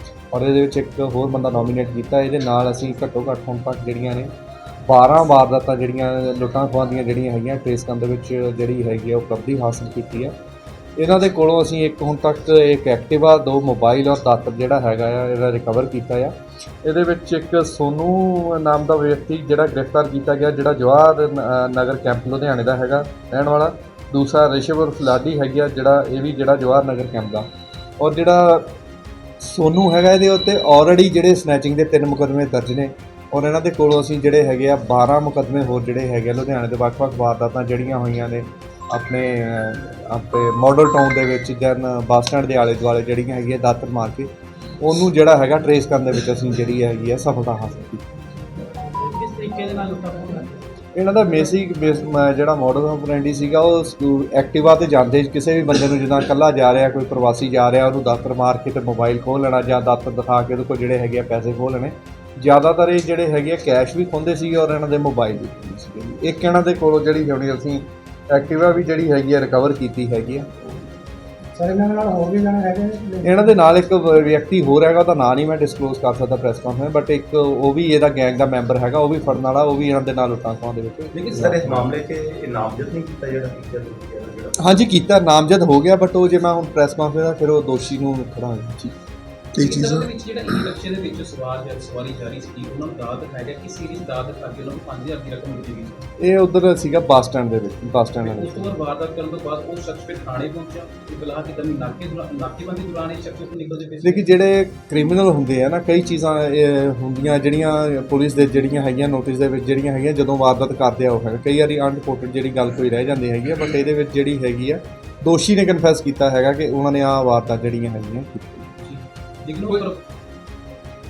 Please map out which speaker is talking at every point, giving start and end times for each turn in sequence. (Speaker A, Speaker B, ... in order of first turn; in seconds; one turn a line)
Speaker A: 0.3-4.3
Speaker A: 4.9-10.3
Speaker A: 11.0-16.3
Speaker A: 16.8-27.5
Speaker A: 28.0-28.7
Speaker A: 29.4-48.0
Speaker B: 48.8-50.6
Speaker A: 50.9-70.5
Speaker C: 71.6-73.4
Speaker A: 73.2-81.9
Speaker D: 81.2-84.6
Speaker A: 84.6-88.9
Speaker B: 89.6-96.1
Speaker C: 89.6-90.1
Speaker A: 96.2-98.7
Speaker B: 98.2-104.2
Speaker A: 104.0-118.7
Speaker B: 118.8-120.0